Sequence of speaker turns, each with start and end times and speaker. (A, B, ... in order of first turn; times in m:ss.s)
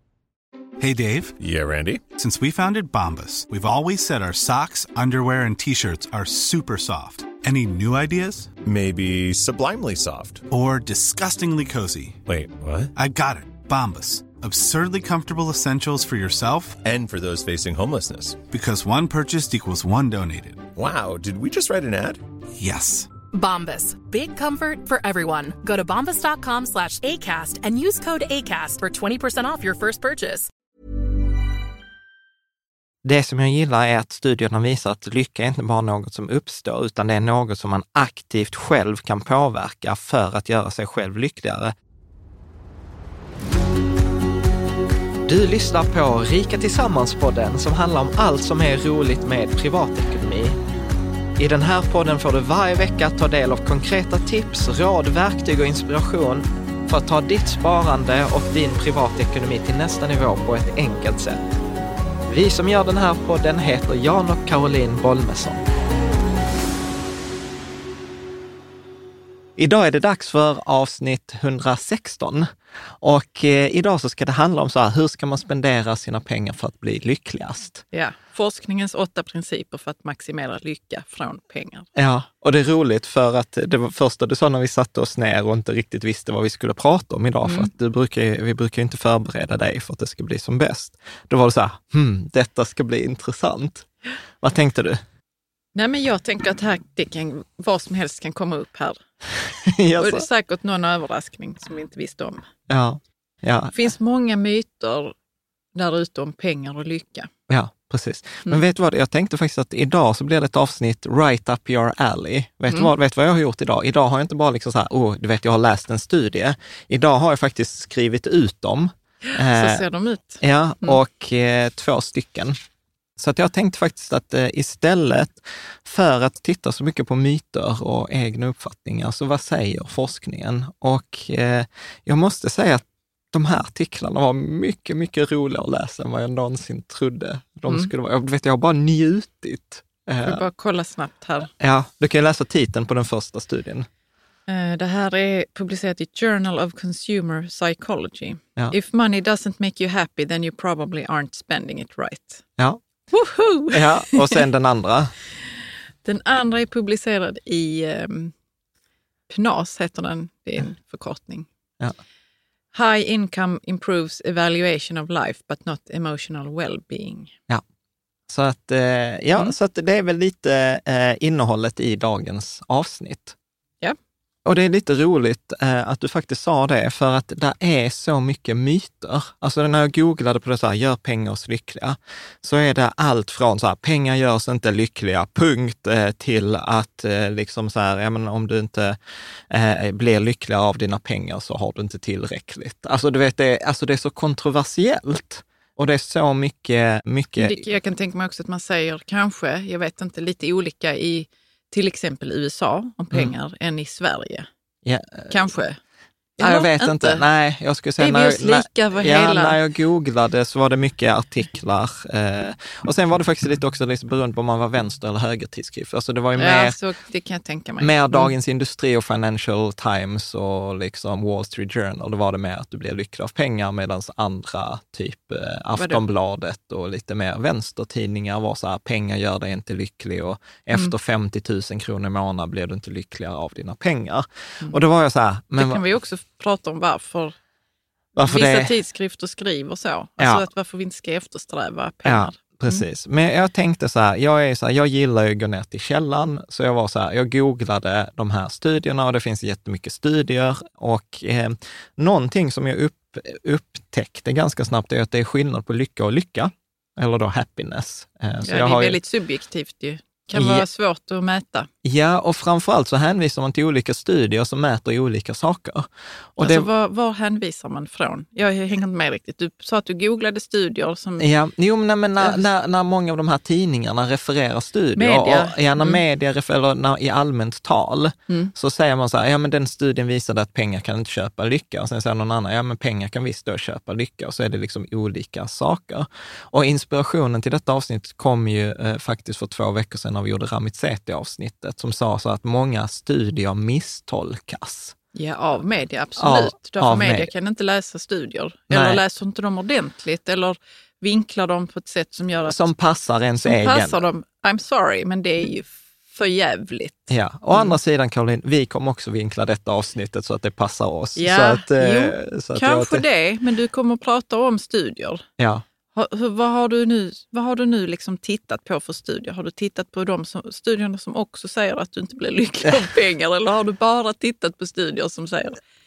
0:00.8-0:01.4 A
0:01.4-0:02.0 B
0:02.1-0:08.6 A
0:08.6-0:10.4 B
0:10.5-0:12.2 A
0:12.2-0:12.9 B
0:13.0-0:16.8 A
0:16.8-0:18.4 B
0:18.5-0:20.6 A
0:20.8-0:22.2 B
0:22.6-0:23.1 A
0:23.3-0:30.5 C
0:33.0-0:41.7 D
0:45.2-0:50.6 D
0:51.4-1:01.4 D
1:02.3-1:05.6 D
1:09.6-1:12.5 D
1:13.0-1:17.8 D
1:17.9-1:21.9 E
1:21.9-1:33.9 D
1:27.4-1:27.7 E
1:34.4-1:35.0 D
1:35.7-1:39.0 E
1:39.6-1:40.2 D
1:40.0-1:42.4 E
1:42.7-1:43.7 D
1:43.7-1:45.1 E
1:45.7-1:47.3 E
1:47.5-1:59.8 D
1:59.3-2:01.0 E
2:00.4-2:02.6 D
2:03.2-2:20.4 D
2:20.2-2:21.5 E
2:21.6-2:23.9 D
2:24.5-2:32.4 E
2:33.1-2:34.4 E
2:33.7-2:35.1 D
2:36.0-2:38.3 E
2:39.3-2:41.5 E
2:42.7-2:47.3 E
2:48.3-2:53.3 D
2:54.4-3:09.0 D
3:09.5-3:17.7 D
3:17.4-3:24.5 E
3:24.8-3:25.4 D
3:25.3-3:25.8 E
3:26.4-3:27.2 E
3:26.4-3:36.8 D
3:28.0-3:29.6 E
3:36.3-3:38.3 E
3:37.8-3:55.8 D
3:45.8-3:46.0 E
3:55.6-3:57.3 E
3:58.2-3:58.7 D
3:58.2-4:02.8 E
4:00.2-4:00.4 D
4:02.0-4:19.0 D
4:18.4-4:21.7 E
4:20.3-4:20.6 D
4:21.8-4:26.7 D
4:26.4-4:31.3 E
4:31.2-4:54.9 D
4:34.9-4:36.0 E
4:55.1-5:02.6 E
4:56.2-4:57.3 D
4:58.7-4:59.0 D
5:02.4-5:04.0 D
5:03.4-5:07.8 E
5:07.1-5:13.0 D
5:11.2-5:15.2 E
5:15.4-5:15.6 D
5:15.9-5:25.6 E